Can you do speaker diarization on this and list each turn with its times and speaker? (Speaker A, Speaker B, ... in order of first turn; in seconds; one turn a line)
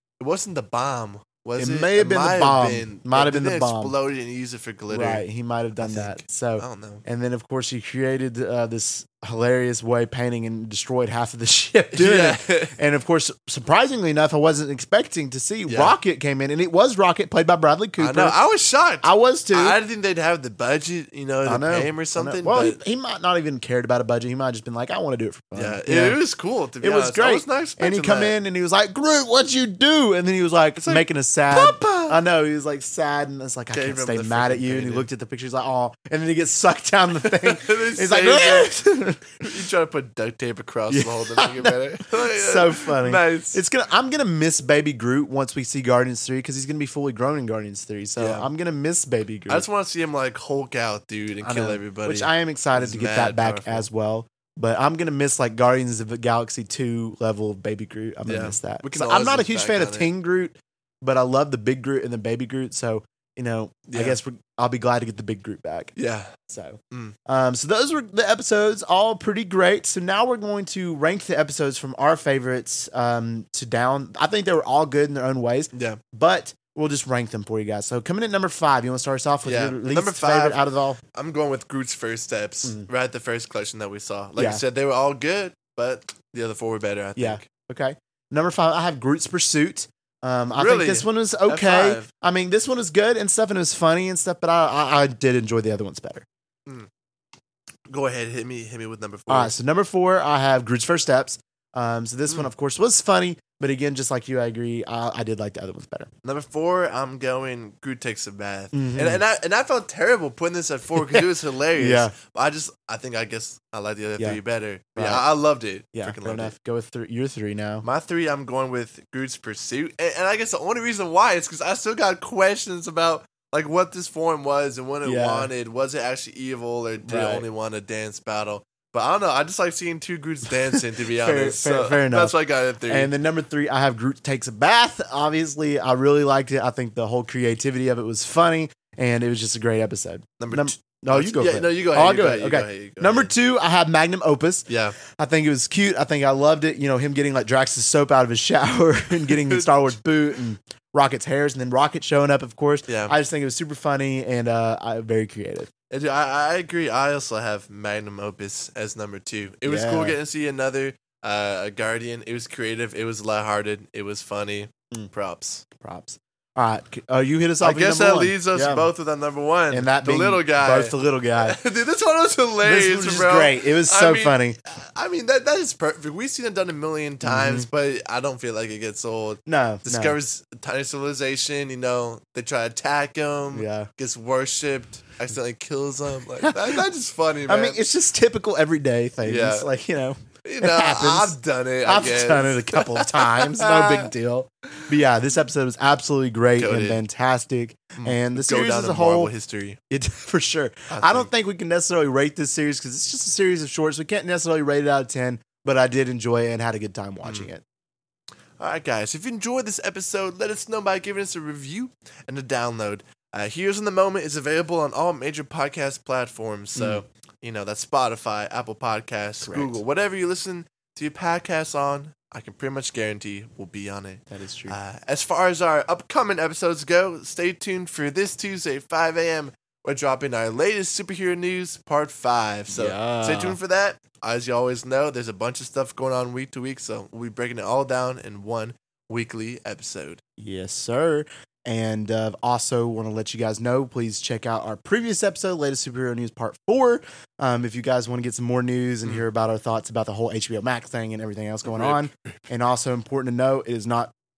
Speaker A: 0.2-5.3
Speaker B: 1.6-3.9
Speaker B: 4.9-18.4
Speaker A: 5.8-7.0
Speaker A: 11.9-12.8
Speaker A: 15.7-16.0
Speaker A: 18.0-22.8
Speaker B: 19.0-19.8
Speaker B: 21.4-26.2
Speaker A: 25.6-28.4
Speaker B: 26.8-39.4
Speaker A: 30.8-32.2
Speaker A: 33.7-35.1
Speaker A: 37.2-38.8
Speaker A: 39.4-43.6
Speaker B: 40.9-49.7
Speaker A: 48.2-48.5
Speaker A: 49.5-53.9
Speaker B: 51.4-65.9
Speaker A: 58.2-60.1
Speaker A: 63.9-64.2
Speaker A: 66.0-66.3
Speaker B: 66.5-81.0
Speaker A: 75.7-76.0
Speaker A: 79.4-87.5
Speaker B: 84.4-84.6
Speaker B: 87.2-96.3
Speaker A: 90.5-92.1
Speaker A: 97.9-99.6
Speaker B: 99.3-106.1
Speaker A: 106.2-116.5
Speaker B: 108.7-109.2
Speaker B: 111.0-112.1
Speaker B: 115.0-115.3
Speaker B: 115.9-117.9
Speaker A: 117.8-133.1
Speaker B: 125.0-125.5
Speaker B: 127.1-127.5
Speaker B: 130.6-155.7
Speaker A: 140.4-143.3
Speaker A: 144.7-145.0
Speaker A: 149.3-149.9
Speaker A: 152.9-153.2
Speaker A: 155.9-165.6
Speaker B: 159.7-160.2
Speaker B: 165.8-168.9
Speaker A: 167.6-187.8
Speaker B: 169.7-171.6
Speaker B: 172.6-174.6
Speaker B: 177.2-177.7
Speaker B: 179.5-180.2
Speaker B: 183.5-183.9
Speaker B: 186.4-186.8
Speaker B: 187.5-199.3
Speaker A: 189.2-189.7
Speaker A: 190.4-194.1
Speaker A: 196.6-197.0
Speaker A: 198.0-199.8
Speaker B: 199.9-207.6
Speaker A: 200.9-201.3
Speaker A: 207.2-207.5
Speaker A: 208.6-240.2
Speaker B: 216.8-217.0
Speaker B: 219.4-219.8
Speaker B: 224.3-224.8
Speaker B: 232.7-233.6
Speaker B: 240.4-254.1
Speaker A: 251.6-252.3